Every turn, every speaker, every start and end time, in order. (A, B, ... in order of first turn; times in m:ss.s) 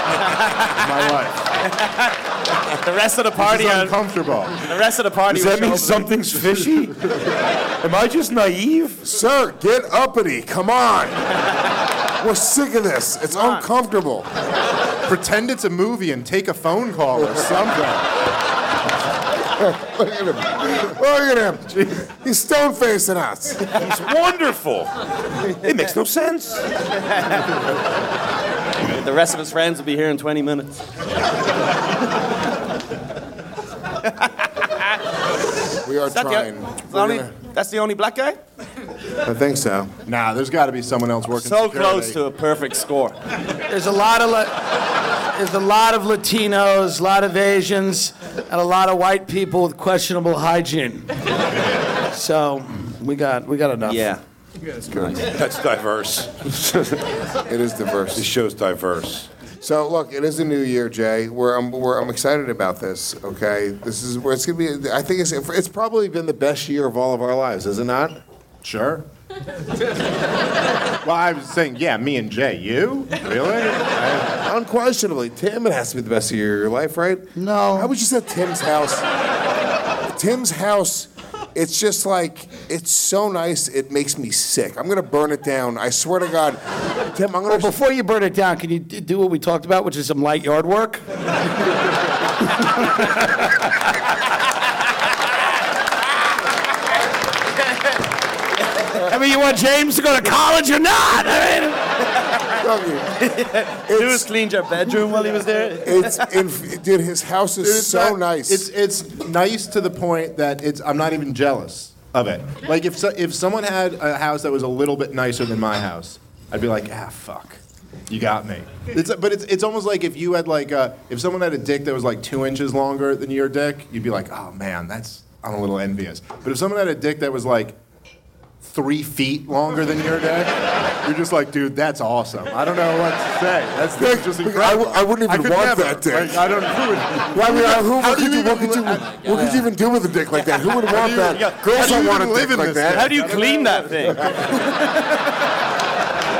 0:00.3-0:00.7 A
0:00.8-0:01.4 B
0:01.6-0:04.0 A
0:03.4-0:04.6 B
0:04.6-0:06.1 A
0:05.3-0:07.1 C
0:07.8-0:09.0 C
0:09.0-0:11.3 D
0:12.2-0:14.3 D
0:13.3-0:13.6 A
0:15.0-0:17.9 B
0:17.3-0:18.0 D
0:19.5-0:23.7 D
0:23.8-0:24.9 C
0:25.4-0:26.6 C
0:27.1-0:27.5 A
0:28.9-0:30.7 A
0:34.1-0:34.3 A
0:35.8-0:37.3 D
0:36.1-0:38.4 A
0:39.2-0:39.9 D
0:40.0-0:42.2 B
0:41.4-0:43.2 A
0:43.7-0:44.6 E
0:45.3-0:51.1 E
0:52.1-0:54.1 E
0:53.8-0:54.2 A
0:54.9-0:55.3 A
0:55.2-0:57.0 C
0:57.5-0:58.3 D
0:58.1-0:59.3 C
0:59.6-1:08.2 D
1:08.6-1:09.0 B
1:11.0-1:14.4 B
1:14.4-1:19.0 D
1:17.4-1:17.9 E
1:20.1-1:26.6 D
1:27.1-1:27.7 D
1:27.5-1:31.0 E
1:32.8-1:33.4 E
1:39.0-1:41.8 E
1:42.6-1:43.2 D
1:43.2-1:46.3 A
1:43.9-1:44.3 D
1:45.8-1:48.7 D
1:47.6-2:07.8 B
2:08.6-2:19.2 B
2:14.0-2:16.5 D
2:17.3-2:23.4 D
2:19.3-2:19.6 A
2:20.9-2:23.7 B
2:21.3-2:21.6 A
2:22.9-2:25.1 A